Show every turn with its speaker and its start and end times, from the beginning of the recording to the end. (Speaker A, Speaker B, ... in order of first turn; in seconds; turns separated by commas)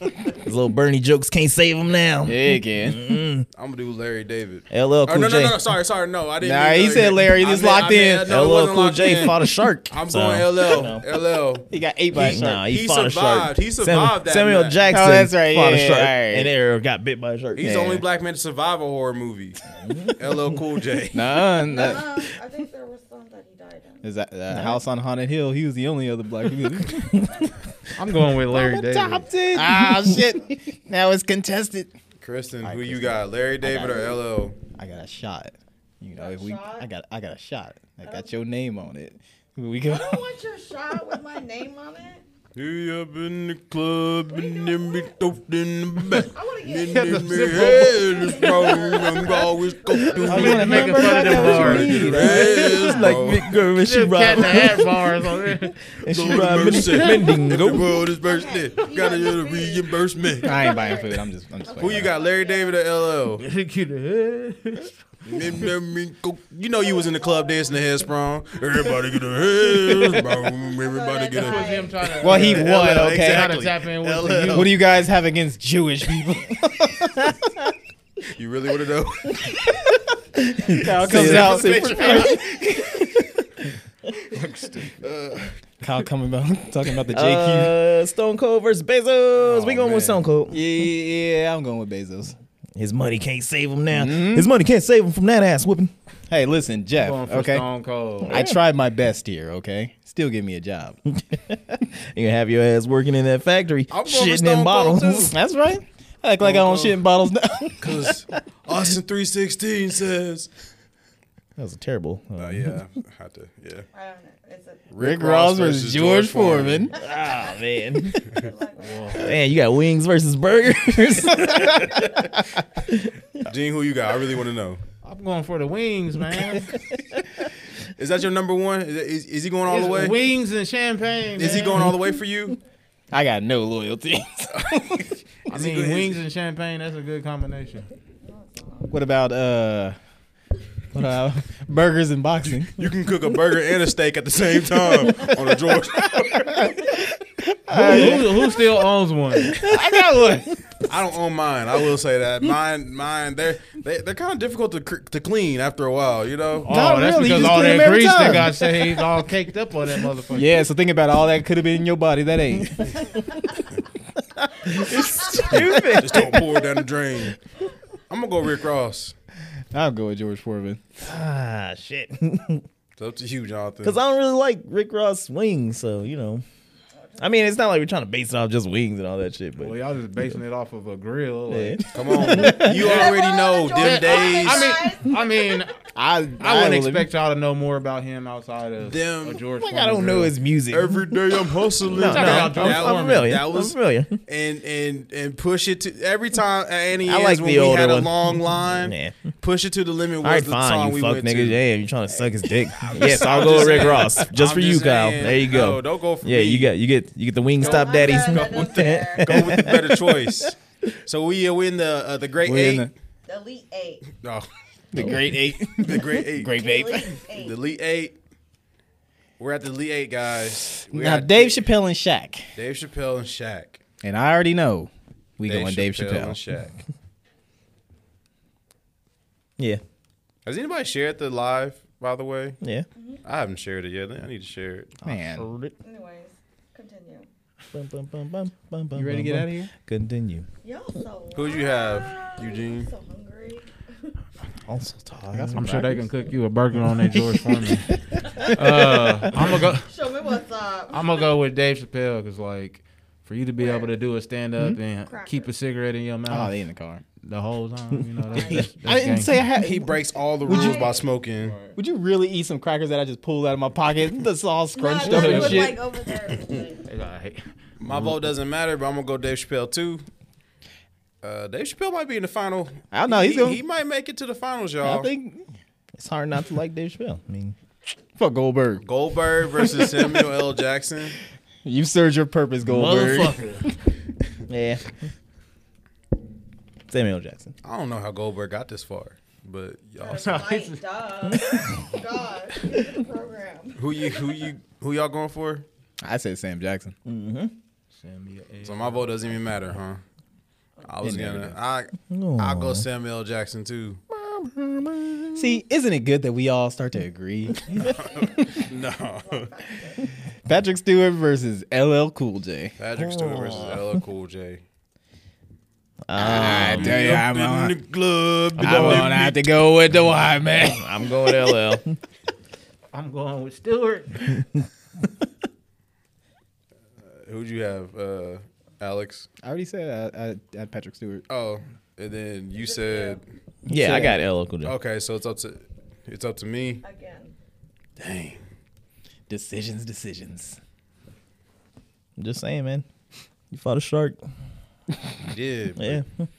Speaker A: 0.4-3.5, Speaker B: 2.2-3.2, Speaker C: 3.5-14.8, Speaker A: 4.7-5.6, Speaker B: 6.4-8.3, Speaker A: 8.3-11.0, Speaker B: 11.7-12.6, Speaker A: 12.1-17.9, Speaker B: 14.9-16.5, Speaker C: 17.6-19.6, Speaker B: 17.6-18.0, Speaker A: 19.7-20.3, Speaker C: 20.1-21.2, Speaker B: 21.1-22.0, Speaker D: 21.6-24.0, Speaker B: 24.0-27.1, Speaker A: 24.5-24.8, Speaker A: 26.8-27.5, Speaker E: 28.0-29.3, Speaker B: 28.5-31.9, Speaker A: 29.2-30.2, Speaker C: 32.2-34.5, Speaker B: 32.6-34.2, Speaker B: 34.7-40.3, Speaker D: 36.1-36.9, Speaker D: 38.0-38.4, Speaker D: 39.9-42.2, Speaker C: 42.5-53.5, Speaker D: 44.4-44.9, Speaker D: 46.3-50.6, Speaker E: 46.8-48.7, Speaker E: 50.2-52.5, Speaker B: 50.2-52.7, Speaker A: 52.1-54.9, Speaker D: 52.6-53.1, Speaker E: 53.8-55.8, Speaker A: 55.9-58.0, Speaker C: 56.0-60.8, Speaker E: 56.8-57.3, Speaker D: 58.0-63.0, Speaker B: 60.4-62.1, Speaker C: 61.8-63.4, Speaker E: 63.4-65.0, Speaker C: 65.2-74.7, Speaker D: 70.8-72.2, Speaker E: 71.3-74.7, Speaker B: 72.2-73.5, Speaker B: 74.5-77.5, Speaker C: 78.3-79.6, Speaker A: 80.4-82.3, Speaker B: 80.7-83.3, Speaker C: 81.0-82.5, Speaker C: 84.3-85.5, Speaker E: 84.3-84.9, Speaker B: 85.8-87.8, Speaker A: 87.1-90.6, Speaker C: 89.4-90.2, Speaker B: 90.5-92.3, Speaker A: 92.8-95.9, Speaker B: 93.9-94.5, Speaker B: 96.3-97.6, Speaker E: 97.0-98.4, Speaker B: 98.2-101.0, Speaker A: 98.3-98.6, Speaker A: 101.1-105.3, Speaker C: 103.9-105.3, Speaker B: 105.2-108.2, Speaker C: 106.4-107.0, Speaker C: 107.8-110.5, Speaker A: 111.6-112.7, Speaker C: 112.4-113.9, Speaker D: 113.9-114.9, Speaker C: 114.9-116.9, Speaker B: 115.0-116.9, Speaker A: 116.9-118.2, Speaker D: 117.0-117.5, Speaker D: 118.1-119.4, Speaker E: 118.8-119.3, Speaker A: 119.1-122.2, Speaker A: 122.9-123.4, Speaker C: 123.4-124.8, Speaker E: 125.0-126.8, Speaker C: 128.0-130.2, Speaker E: 129.7-131.9, Speaker C: 131.3-132.6, Speaker B: 133.1-135.1, Speaker C: 135.5-136.2, Speaker E: 135.5-137.9, Speaker D: 138.2-138.9, Speaker B: 138.9-139.9, Speaker B: 140.9-142.8, Speaker C: 142.7-146.7, Speaker B: 146.2-148.6, Speaker E: 147.7-150.5, Speaker B: 149.5-150.0, Speaker C: 150.8-156.7, Speaker E: 156.6-160.6, Speaker B: 156.7-158.8, Speaker B: 160.3-162.9, Speaker A: 164.6-166.5, Speaker C: 164.8-167.4, Speaker C: 168.1-169.1, Speaker B: 169.7-170.8, Speaker A: 171.0-172.6, Speaker C: 173.0-174.0, Speaker A: 173.8-176.4, Speaker A: 177.2-179.8, Speaker E: 179.6-185.8, Speaker A: 181.5-182.7, Speaker C: 181.9-184.8, Speaker B: 182.3-182.7, Speaker D: 182.6-185.7, Speaker B: 185.9-187.1, Speaker E: 186.4-190.3, Speaker C: 188.8-189.4, Speaker A: 189.6-191.1, Speaker C: 190.7-201.6, Speaker A: 191.9-194.2, Speaker E: 191.9-193.3, Speaker A: 197.1-199.2, Speaker A: 200.2-210.5, Speaker C: 202.8-206.7, Speaker D: 207.6-209.6, Speaker C: 207.6-212.9, Speaker B: 212.4-212.9, Speaker D: 213.2-214.1, Speaker C: 214.2-214.5, Speaker B: 214.9-217.2, Speaker A: 214.9-215.2, Speaker C: 215.7-216.6, Speaker D: 216.4-217.6, Speaker C: 217.3-218.2, Speaker C: 219.4-221.7, Speaker B: 220.9-222.5, Speaker C: 222.5-223.8, Speaker B: 224.0-226.4, Speaker C: 225.4-226.8, Speaker C: 230.4-232.6, Speaker A: 232.6-232.8, Speaker D: 232.9-233.2, Speaker C: 233.2-235.0, Speaker B: 235.0-235.5, Speaker A: 235.1-235.7, Speaker D: 235.8-237.3, Speaker A: 237.7-240.5, Speaker B: 238.9-239.7, Speaker D: 240.6-244.1, Speaker C: 241.3-242.9, Speaker A: 244.7-245.7, Speaker B: 245.3-246.1, Speaker E: 245.5-247.9, Speaker B: 247.9-248.7, Speaker D: 248.2-248.6, Speaker E: 248.5-249.9, Speaker D: 249.7-251.2, Speaker E: 250.9-256.6, Speaker D: 253.6-253.9, Speaker D: 255.1-255.5, Speaker B: 256.3-257.0, Speaker E: 257.2-259.4, Speaker D: 258.3-258.6, Speaker B: 258.8-260.9, Speaker C: 259.5-261.6, Speaker D: 260.4-260.9, Speaker E: 261.4-261.7, Speaker B: 261.7-265.8, Speaker D: 264.7-266.9, Speaker E: 265.0-265.7, Speaker E: 266.9-267.4, Speaker C: 267.8-270.0, Speaker C: 271.2-275.1, Speaker B: 272.9-273.6, Speaker B: 274.8-275.4, Speaker A: 276.0-277.5, Speaker B: 278.2-278.8, Speaker C: 278.8-281.2, Speaker B: 279.6-280.1, Speaker B: 281.6-283.4, Speaker E: 282.6-283.6, Speaker A: 284.5-285.0, Speaker A: 286.9-287.5, Speaker C: 287.6-290.5, Speaker D: 290.0-294.4, Speaker E: 290.2-290.8, Speaker A: 291.3-291.6, Speaker C: 293.8-295.6, Speaker B: 296.0-296.9, Speaker A: 297.1-297.5, Speaker E: 297.9-299.4, Speaker C: 298.6-300.0, Speaker C: 300.8-304.0, Speaker B: 301.0-301.6, Speaker A: 302.1-302.8, Speaker B: 304.1-307.8, Speaker A: 305.1-305.4, Speaker C: 307.7-309.6, Speaker D: 309.3-310.0, Speaker B: 310.4-312.7, Speaker C: 312.8-314.6, Speaker A: 312.9-314.0, Speaker A: 316.1-317.0, Speaker B: 316.1-317.7, Speaker C: 316.2-319.4, Speaker A: 318.6-319.2, Speaker B: 318.6-320.9, Speaker A: 320.6-322.0, Speaker E: 322.9-324.4, Speaker C: 327.0-329.3, Speaker B: 329.4-331.2, Speaker C: 331.3-333.2, Speaker D: 332.6-333.2, Speaker A: 333.6-334.7, Speaker B: 333.7-334.2, Speaker C: 334.6-336.8, Speaker D: 336.8-337.3, Speaker C: 338.0-338.4, Speaker B: 339.3-340.6, Speaker A: 342.2-342.8, Speaker A: 343.5-344.2, Speaker C: 345.2-346.0, Speaker A: 345.8-346.3